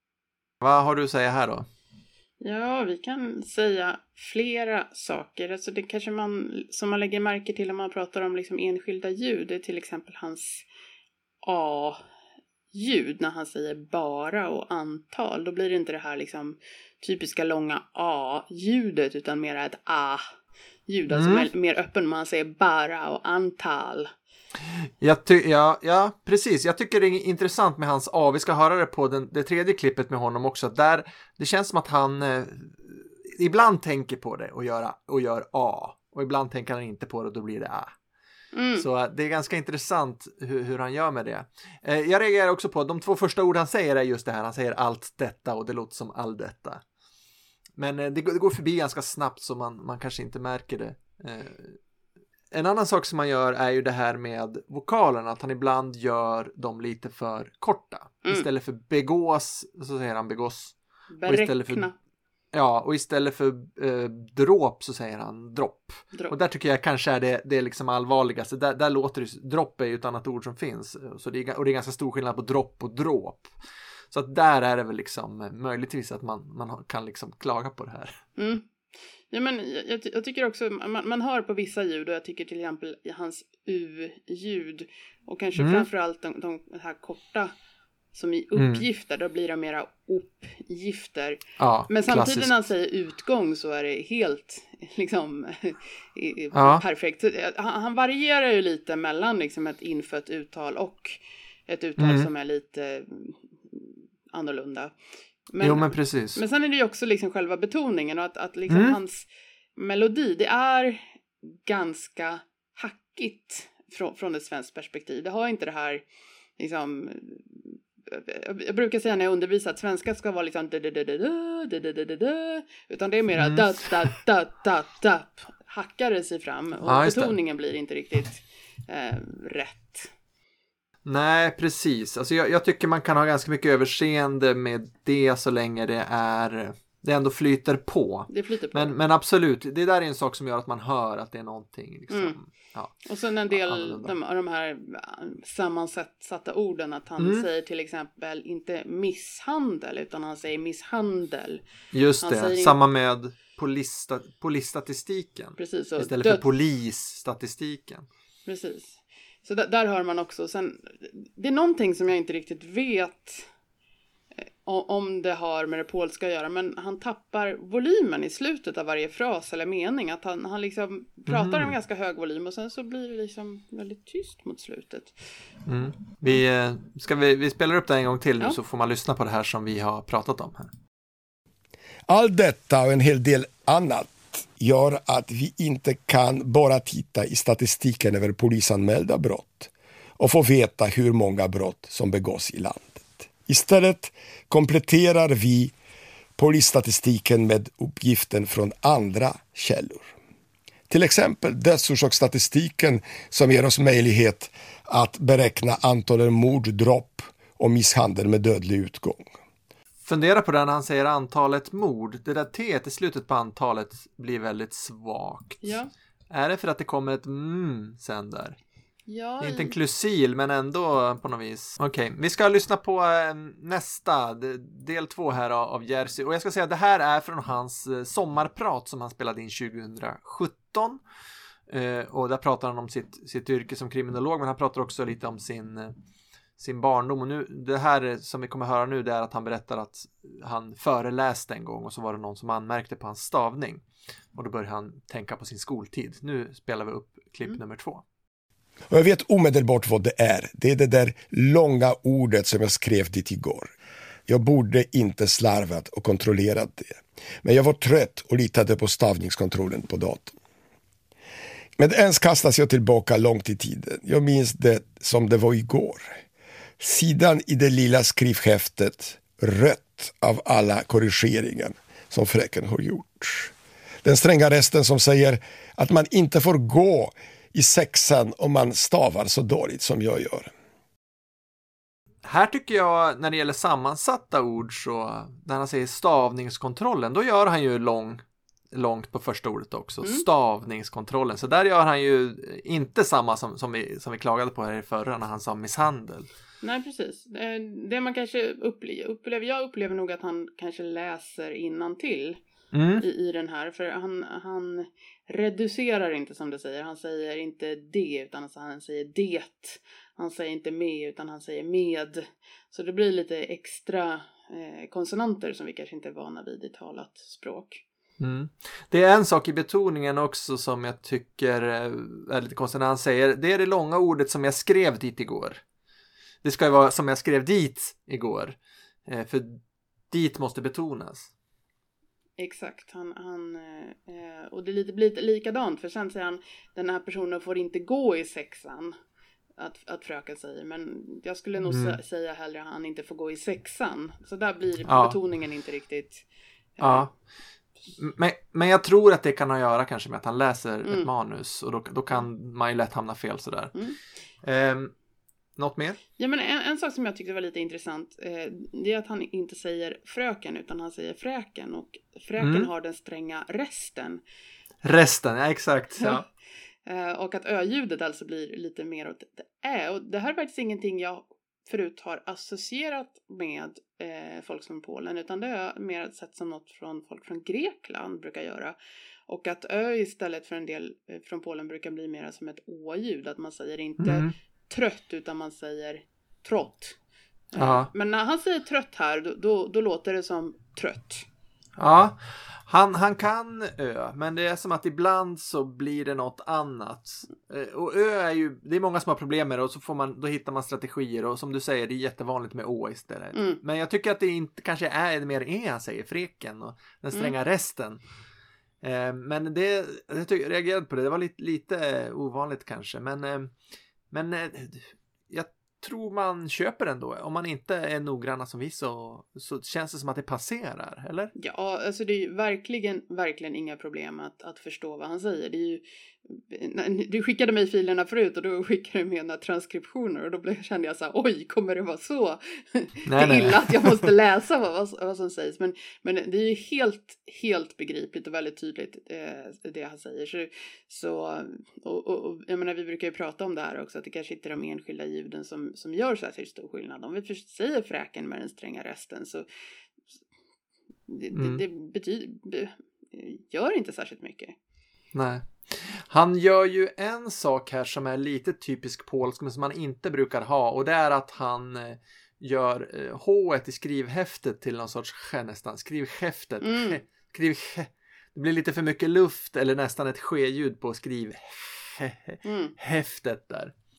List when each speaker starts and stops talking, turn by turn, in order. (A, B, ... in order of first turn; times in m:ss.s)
0:00.6-0:01.6 A
0:02.4-0:10.6 B
0:11.4-0:12.0 B
0:12.7-0:20.2 B
0:20.9-0:24.1 B
0:21.1-0:21.5 A
0:25.0-0:37.9 A
0:38.5-0:38.8 B
0:38.8-0:46.8 A
0:47.8-0:51.8 A
0:52.5-1:00.7 A
1:01.1-1:01.9 B
1:01.2-1:01.9 A
1:02.5-1:13.5 A
1:14.1-1:18.2 A
1:18.4-1:18.6 B
1:19.3-1:27.5 B
1:25.6-1:25.8 A
1:28.1-1:44.9 B
1:28.6-1:28.8 A
1:31.6-1:32.6 A
1:36.5-1:36.8 A
1:42.0-1:42.3 A
1:45.5-1:56.0 B
1:45.6-1:46.4 A
1:48.7-1:49.0 A
1:56.6-2:10.1 B
2:03.4-2:03.6 A
2:06.8-2:07.3 A
2:11.0-2:24.1 A
2:18.3-2:18.9 B
2:22.1-2:22.4 B
2:23.0-2:31.6 B
2:27.2-2:27.4 A
2:31.9-2:38.1 A
2:32.2-2:32.8 B
2:35.6-2:36.4 B
2:38.4-2:43.5 B
2:44.4-2:55.1 B
2:51.3-2:51.7 A
2:55.6-3:00.7 A
3:02.1-3:15.7 C
3:16.4-3:20.1 C
3:20.9-3:29.3 C
3:30.0-3:35.7 A
3:35.6-3:35.9 B
3:36.3-3:38.6 A
3:39.1-3:39.7 B
3:39.4-3:51.0 A
3:51.7-3:55.9 A
3:56.6-4:03.8 A
4:04.3-4:08.0 A
4:08.9-4:13.7 C
4:14.3-4:20.4 C
4:21.8-4:26.2 C
4:26.8-4:33.5 C
4:34.0-4:40.5 C
4:42.2-4:56.3 A
4:56.6-5:02.4 B
5:02.7-5:03.0 A
5:03.0-5:17.8 B
5:18.2-5:25.6 A
5:26.4-5:31.3 A
5:32.4-5:39.0 B
5:39.6-5:46.2 B
5:41.7-5:42.0 A
5:44.9-5:45.2 A
5:46.8-5:47.1 B
5:46.8-5:47.1 A
5:48.0-5:53.7 A
5:54.4-5:54.9 A
5:55.6-5:56.0 A
5:56.2-6:04.2 B
6:02.4-6:02.7 A
6:04.8-6:06.2 A
6:06.8-6:18.7 B
6:19.3-6:27.0 B
6:24.0-6:24.3 A
6:27.5-6:31.2 B
6:27.6-6:27.9 A
6:31.8-6:48.0 A
6:43.3-6:43.6 B
6:48.8-6:53.5 A
6:54.1-7:01.3 A
7:01.4-7:29.4 B
7:13.1-7:14.1 A
7:31.1-7:34.5 B
7:31.3-7:31.6 A
7:35.1-7:53.7 A
7:46.6-7:47.0 B
7:52.4-7:52.7 B